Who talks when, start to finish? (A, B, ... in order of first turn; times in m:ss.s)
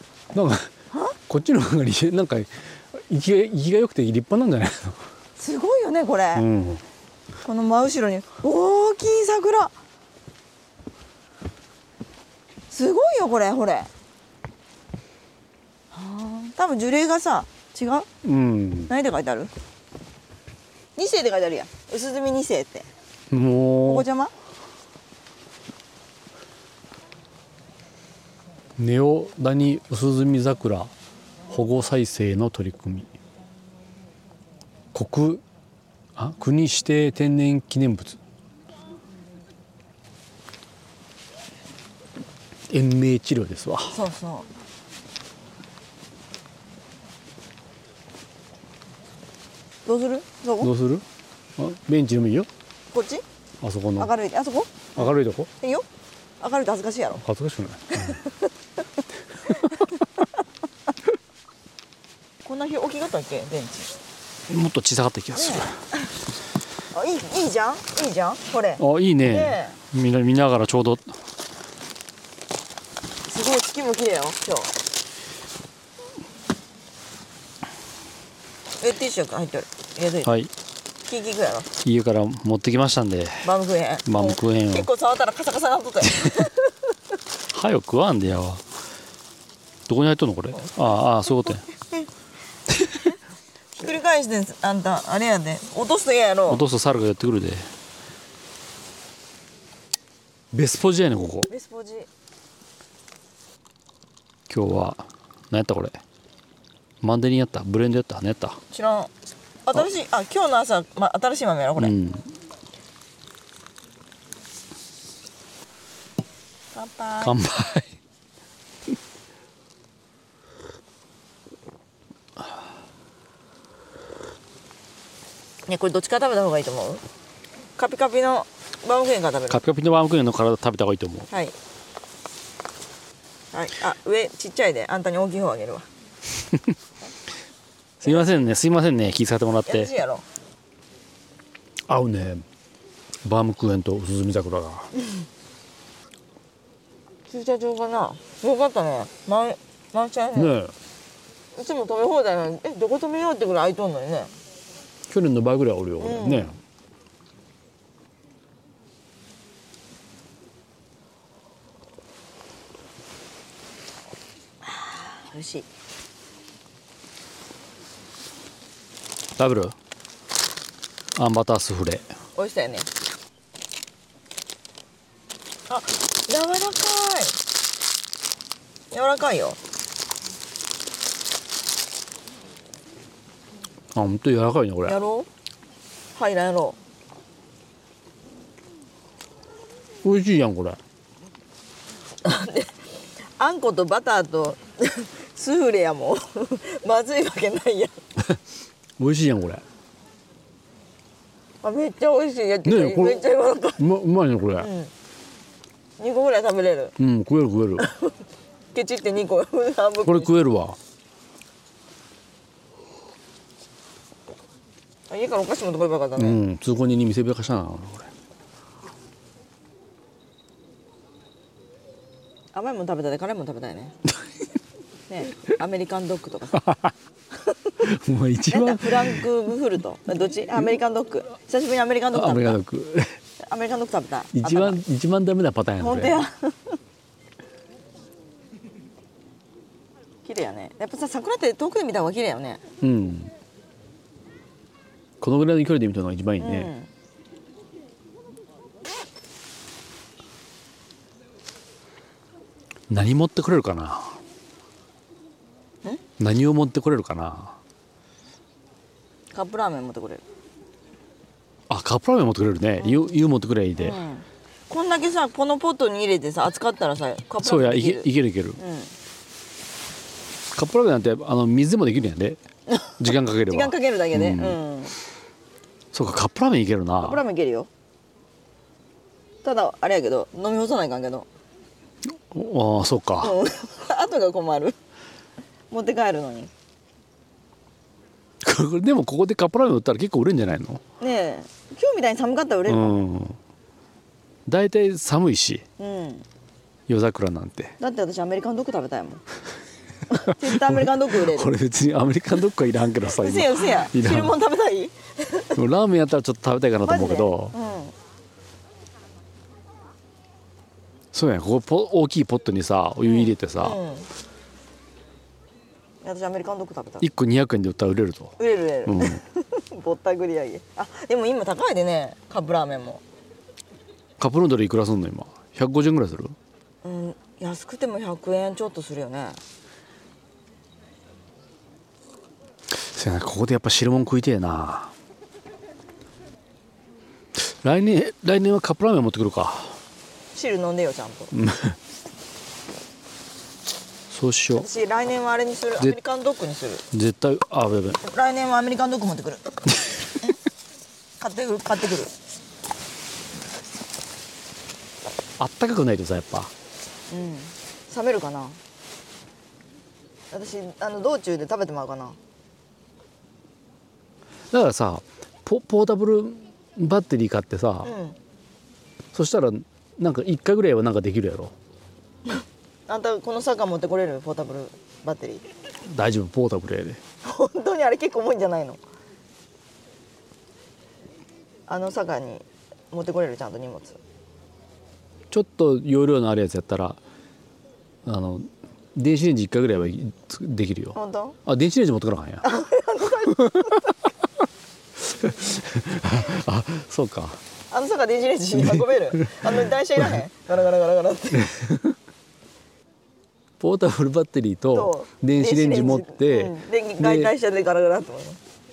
0:00.3-0:00.7 A
0:00.9-0:01.2 B
0:01.3-0:05.0 A
0:05.4-0:06.4 B
0:06.3-0:06.8 A
0:07.4-0:09.7 B
0:12.7-0:13.9 B
0:15.9-0:18.1 B
0:18.2-0:18.9 A
0:18.9-0:19.5 B
0:21.0-0:22.9 B
0:23.3-0:24.1 A
0:23.8-0:24.3 B
0:28.8-0:30.9 A
0:31.5-0:33.1 A
0:34.9-0:35.4 A
0:36.2-0:38.2 A
0:42.7-0:44.0 A
0:43.9-0:44.5 B
0:49.8-0:50.7 B
0:50.6-0:51.0 A
0:51.6-0:52.5 A
0:52.9-0:53.2 B
0:53.6-0:54.1 A
0:54.0-0:55.8 B
0:54.9-0:55.5 A
0:56.4-0:57.2 B
0:57.2-0:58.2 A
0:57.9-0:58.5 B
0:59.5-0:59.9 B
1:02.4-1:03.9 B
1:04.5-1:05.7 A
1:05.4-1:06.1 B
1:06.9-1:09.8 B
1:08.8-1:11.2 A
1:13.3-1:14.7 B
1:18.8-1:20.3 B
1:20.2-1:20.5 A
1:21.1-1:21.7 B
1:21.8-1:23.5 A
1:23.4-1:26.7 B
1:24.0-1:24.9 A
1:27.5-1:28.6 A
1:29.9-1:31.6 A
1:30.6-1:32.1 B
1:33.7-1:36.6 B
1:36.5-1:37.7 A
1:40.5-1:41.5 A
1:41.5-1:42.1 B
1:44.5-1:46.0 A
1:47.0-1:48.6 A
1:48.7-1:49.1 B
1:49.6-1:52.0 B
1:51.8-1:52.3 A
1:56.7-1:57.4 B
1:57.2-1:57.9 A
2:05.7-2:07.0 B
2:07.8-2:09.6 B
2:09.5-2:11.3 A
2:11.3-2:11.5 B
2:13.5-2:15.9 B
2:18.0-2:19.9 A
2:19.6-2:20.2 B
2:21.9-2:22.4 A
2:23.2-2:24.9 A
2:27.3-2:30.5 B
2:30.3-2:30.7 A
2:31.6-2:34.3 B
2:35.1-2:36.6 A
2:36.0-2:36.5 B
2:44.6-2:45.7 B
2:49.4-2:49.7 A
2:51.2-2:52.1 A
2:52.4-2:52.9 B
2:55.7-2:57.4 B
2:58.9-2:59.6 B
3:03.9-3:05.0 A
3:04.8-3:05.3 B
3:06.1-3:06.8 B
3:10.0-3:10.8 A
3:12.2-3:12.7 B
3:13.4-3:18.0 B
3:19.0-3:19.6 A
3:21.6-3:23.8 B
3:22.6-3:24.7 A
3:24.6-3:24.9 B
3:26.0-3:27.0 B
3:27.0-3:27.9 A
3:27.8-3:28.1 B
3:28.7-3:30.4 B
3:30.0-3:30.8 A
3:35.1-3:36.4 B
3:36.2-3:38.1 A
3:42.5-3:44.0 B
3:45.1-3:46.8 B
3:47.8-3:49.2 A
3:48.5-3:52.6 B
3:52.1-3:53.2 A
3:53.5-3:54.8 B
3:54.3-3:56.2 A
3:55.8-3:56.8 B
4:00.2-4:02.6 B
4:02.8-4:03.3 A
4:05.2-4:06.7 A
4:06.4-4:06.9 B
4:12.9-4:14.2 A
4:16.2-4:17.6 A
4:19.3-4:20.2 B
4:21.7-4:24.0 A
4:22.8-4:23.1 B
4:23.8-4:28.9 B
4:27.4-4:28.6 A
4:30.5-4:32.4 A
4:32.7-4:34.9 B
4:33.0-4:34.6 A
4:35.9-4:37.2 A
4:37.0-4:37.7 B
4:39.4-4:41.3 B
4:42.3-4:43.4 A
4:43.2-4:44.8 B
4:45.7-4:46.5 B
4:48.4-4:50.8 A
4:51.0-4:53.0 B
4:52.7-4:53.4 A
4:54.4-4:55.6 A
4:55.8-4:56.2 B
4:56.9-4:57.7 A
4:57.8-4:59.2 B
5:00.1-5:01.5 B
5:00.3-5:04.3 A
5:03.1-5:05.6 B
5:05.5-5:07.5 A
5:06.8-5:07.9 B
5:11.1-5:13.8 A
5:13.0-5:14.1 B
5:16.0-5:17.0 B
5:17.0-5:19.2 A
5:18.4-5:23.0 B
5:24.2-5:26.4 A
5:26.8-5:29.4 B
5:32.7-5:34.9 A
5:37.4-5:39.8 A
5:40.3-5:41.3 B
5:41.3-5:41.8 A
5:44.1-5:44.7 A
5:44.5-5:46.8 B
5:46.9-5:48.0 A
5:48.0-5:49.6 B
5:51.2-5:52.1 B
5:55.4-5:56.5 A
5:57.1-5:58.6 B
6:00.3-6:02.2 B
6:04.5-6:07.9 A
6:07.8-6:08.2 B
6:09.1-6:11.5 A
6:12.9-6:15.4 B
6:15.8-6:17.0 A
6:17.2-6:18.8 B
6:21.7-6:24.0 B
6:25.3-6:27.0 A
6:28.0-6:32.4 A
6:30.9-6:31.4 B
6:32.4-6:34.0 B
6:33.3-6:33.9 A
6:35.0-6:37.4 A
6:37.7-6:41.5 B
6:38.6-6:39.6 A
6:41.3-6:42.0 A
6:43.6-6:47.3 A
6:44.7-6:48.4 B